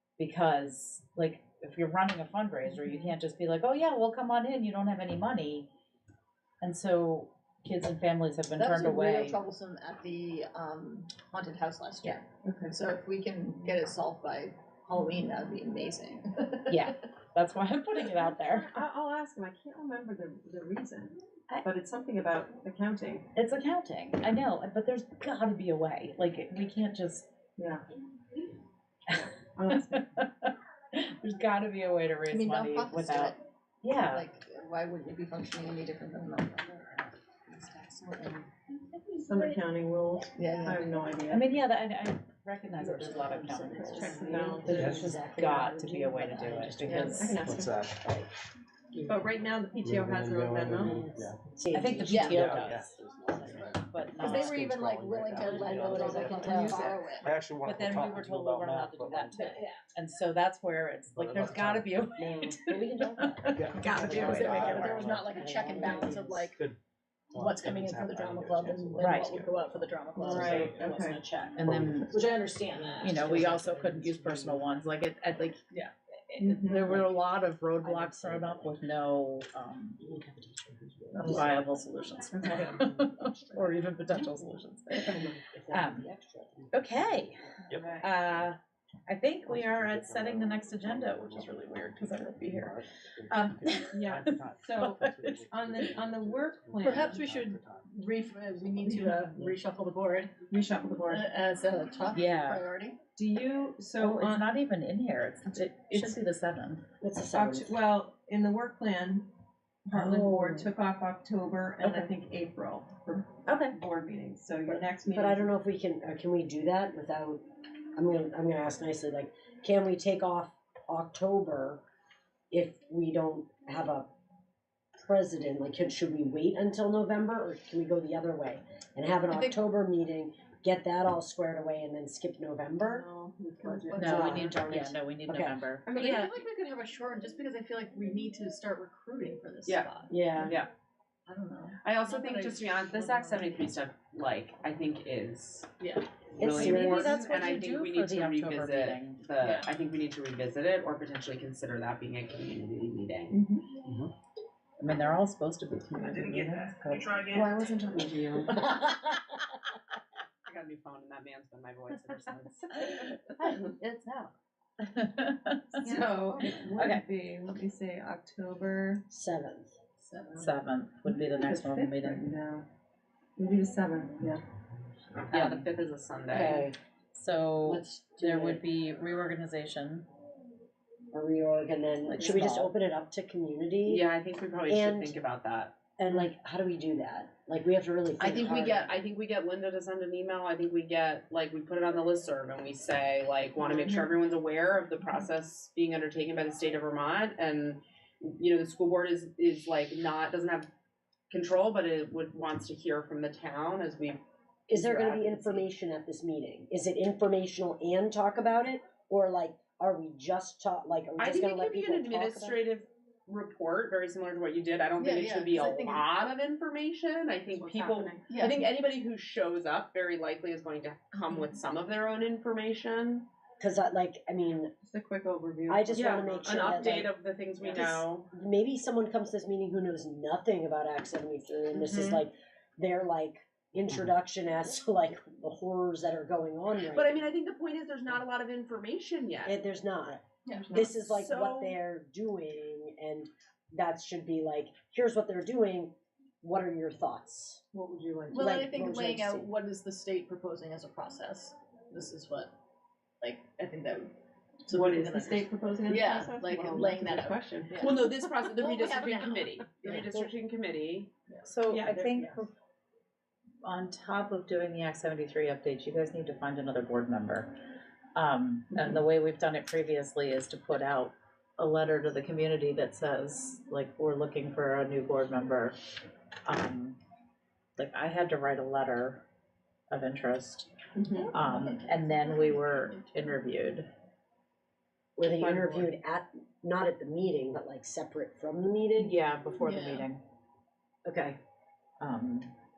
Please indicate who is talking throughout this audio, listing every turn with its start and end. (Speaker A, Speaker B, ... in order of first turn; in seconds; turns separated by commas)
Speaker A: 0.2-5.7, Speaker A: 6.6-9.4, Speaker B: 8.6-16.8, Speaker C: 12.4-12.8, Speaker A: 16.7-18.7, Speaker C: 18.6-23.3, Speaker A: 23.4-27.3, Speaker C: 27.6-27.8, Speaker A: 29.1-34.2, Speaker C: 29.6-30.1, Speaker B: 32.3-33.4, Speaker B: 33.9-38.5, Speaker C: 39.1-41.6, Speaker B: 40.3-40.9, Speaker A: 41.3-47.5, Speaker D: 43.5-47.4, Speaker C: 43.8-45.0, Speaker E: 44.7-45.1, Speaker B: 46.9-47.2, Speaker C: 47.2-47.8, Speaker E: 47.3-48.2, Speaker C: 49.0-51.2, Speaker E: 49.8-51.4, Speaker D: 50.9-52.6, Speaker A: 51.7-54.7, Speaker E: 51.9-59.5, Speaker B: 52.0-52.5, Speaker B: 53.4-57.3, Speaker D: 55.4-57.0, Speaker C: 56.5-56.9, Speaker A: 57.6-65.1, Speaker E: 61.1-62.0, Speaker D: 62.2-66.5, Speaker E: 63.5-66.8, Speaker B: 63.8-66.6, Speaker E: 67.3-70.9, Speaker B: 67.3-73.6, Speaker A: 69.0-69.3, Speaker C: 70.2-71.2, Speaker A: 71.5-72.2, Speaker E: 71.7-72.4, Speaker A: 73.0-75.6, Speaker D: 73.0-73.7, Speaker A: 76.3-80.0, Speaker C: 76.4-77.0, Speaker D: 77.8-78.7, Speaker D: 80.0-81.5, Speaker A: 81.1-86.1, Speaker D: 82.5-82.8, Speaker D: 85.0-86.8, Speaker A: 86.7-87.4, Speaker E: 87.7-88.5, Speaker C: 87.8-88.0, Speaker A: 88.0-94.2, Speaker E: 89.5-97.9, Speaker C: 93.9-97.2, Speaker A: 94.8-95.3, Speaker B: 96.8-100.5, Speaker C: 100.5-101.3, Speaker B: 101.1-103.0, Speaker A: 102.1-102.7, Speaker C: 103.2-104.5, Speaker A: 104.0-106.8, Speaker C: 105.9-106.2, Speaker D: 107.0-107.8, Speaker C: 107.3-109.3, Speaker C: 109.9-115.5, Speaker A: 110.0-110.5, Speaker A: 111.8-112.1, Speaker A: 113.5-113.8, Speaker D: 114.8-117.5, Speaker D: 118.0-121.8, Speaker D: 122.5-124.1, Speaker D: 125.0-133.1, Speaker B: 129.3-129.6, Speaker C: 132.8-134.2, Speaker B: 133.6-134.7, Speaker D: 134.0-135.6, Speaker A: 134.0-135.9, Speaker C: 135.9-136.2, Speaker B: 135.9-140.5, Speaker D: 140.1-140.6, Speaker F: 140.4-140.7, Speaker B: 141.3-143.6, Speaker F: 141.8-145.7, Speaker B: 145.8-146.2, Speaker D: 146.4-147.2, Speaker F: 146.4-153.4, Speaker A: 146.4-149.2, Speaker B: 149.4-149.7, Speaker C: 153.3-153.8, Speaker A: 154.8-157.4, Speaker F: 157.0-158.2, Speaker C: 157.4-158.6, Speaker A: 158.6-158.9, Speaker F: 160.4-162.8, Speaker F: 163.4-164.3, Speaker A: 164.8-165.8, Speaker C: 165.8-169.1, Speaker A: 166.7-167.1, Speaker D: 169.1-169.8, Speaker C: 170.1-172.7, Speaker A: 170.4-172.3, Speaker C: 173.4-174.4, Speaker F: 175.3-176.7, Speaker A: 175.3-175.7, Speaker D: 176.3-176.8, Speaker A: 177.1-180.1, Speaker D: 177.7-178.6, Speaker D: 181.1-184.0, Speaker A: 182.1-182.7, Speaker C: 182.2-182.5, Speaker F: 183.9-185.8, Speaker D: 184.7-185.2, Speaker D: 186.0-188.9, Speaker F: 188.2-200.7, Speaker C: 193.6-194.1, Speaker F: 201.3-205.7, Speaker D: 204.7-212.6, Speaker F: 211.2-223.3, Speaker B: 215.0-216.1, Speaker C: 217.5-218.7, Speaker B: 218.3-218.6, Speaker D: 223.6-224.7, Speaker C: 224.8-227.8, Speaker D: 225.7-227.1, Speaker F: 225.9-228.3, Speaker D: 227.7-237.3, Speaker F: 231.8-232.2, Speaker F: 236.9-239.6, Speaker D: 239.4-247.6, Speaker B: 240.5-240.7, Speaker C: 240.5-241.0, Speaker F: 241.0-241.8, Speaker C: 247.7-248.9, Speaker B: 248.3-252.5, Speaker D: 248.3-249.5, Speaker B: 253.2-254.1, Speaker C: 254.7-257.8, Speaker B: 254.7-260.3, Speaker F: 256.5-256.9, Speaker F: 257.8-261.1, Speaker A: 261.5-262.5, Speaker D: 261.9-262.4, Speaker A: 263.6-267.6, Speaker A: 268.1-275.8, Speaker A: 276.5-277.0, Speaker A: 277.8-279.2, Speaker A: 279.9-280.7, Speaker C: 280.9-281.3, Speaker B: 281.1-283.4, Speaker A: 281.3-283.9, Speaker D: 285.2-289.1, Speaker C: 285.3-285.9, Speaker A: 289.0-290.2, Speaker B: 289.6-290.1, Speaker A: 291.1-291.4, Speaker A: 292.0-292.5